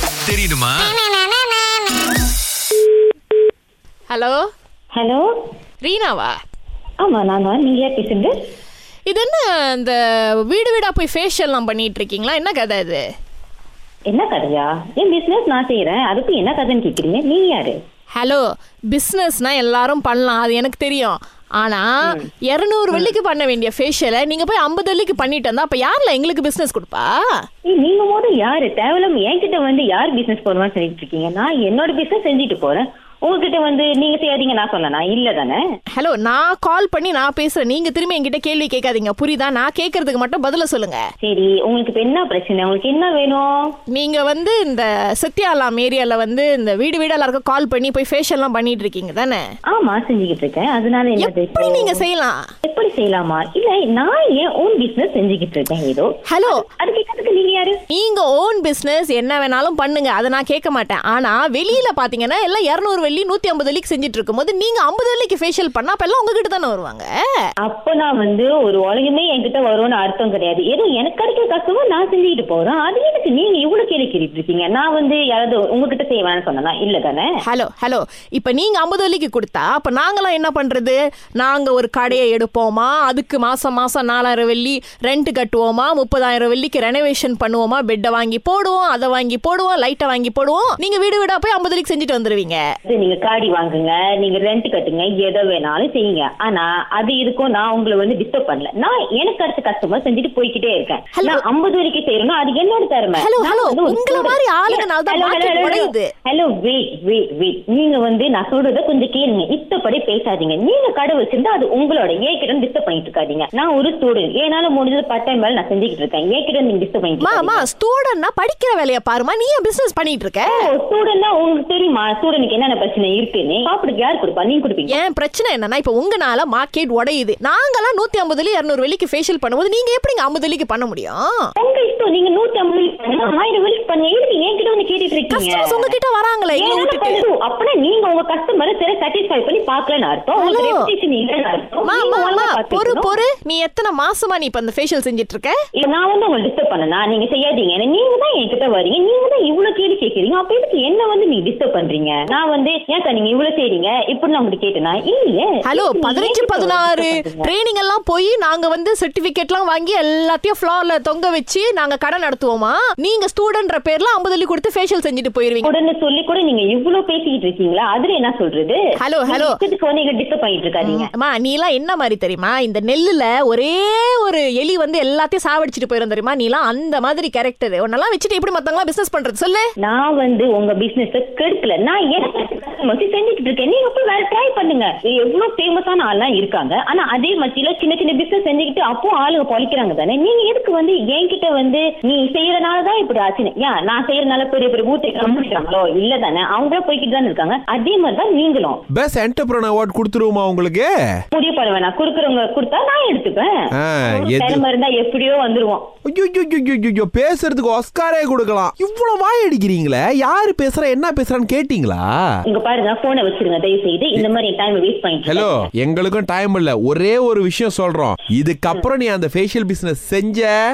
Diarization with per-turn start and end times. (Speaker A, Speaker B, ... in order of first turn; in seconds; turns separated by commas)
Speaker A: 0.3-0.9, Speaker B: 4.1-4.4, Speaker C: 5.0-5.2, Speaker B: 5.8-6.4, Speaker C: 7.0-8.3, Speaker B: 9.1-13.0, Speaker C: 14.1-17.8, Speaker B: 18.1-27.2, Speaker C: 27.7-35.6, Speaker B: 35.9-41.0, Speaker C: 41.2-43.7, Speaker B: 43.9-49.4, Speaker C: 49.7-52.0, Speaker B: 51.2-52.4, Speaker C: 52.6-57.8, Speaker B: 56.3-56.6, Speaker B: 57.9-67.1, Speaker C: 67.6-77.3, Speaker B: 77.4-92.6, Speaker C: 92.8-117.7, Speaker B: 101.2-101.4, Speaker B: 103.2-106.1, Speaker B: 117.2-120.6, Speaker C: 120.5-125.0, Speaker B: 124.9-131.2, Speaker C: 131.6-135.9, Speaker B: 135.3-137.2, Speaker C: 136.6-143.1, Speaker B: 140.4-140.9, Speaker B: 141.8-145.6, Speaker C: 145.8-157.5, Speaker B: 155.7-165.7, Speaker C: 165.6-171.1, Speaker B: 169.0-169.6, Speaker B: 170.8-179.7, Speaker C: 179.8-198.8, Speaker A: 198.9-200.9, Speaker C: 201.3-203.5, Speaker A: 203.8-204.6, Speaker C: 204.0-205.8, Speaker A: 206.1-212.3, Speaker C: 212.5-215.7, Speaker A: 215.3-220.6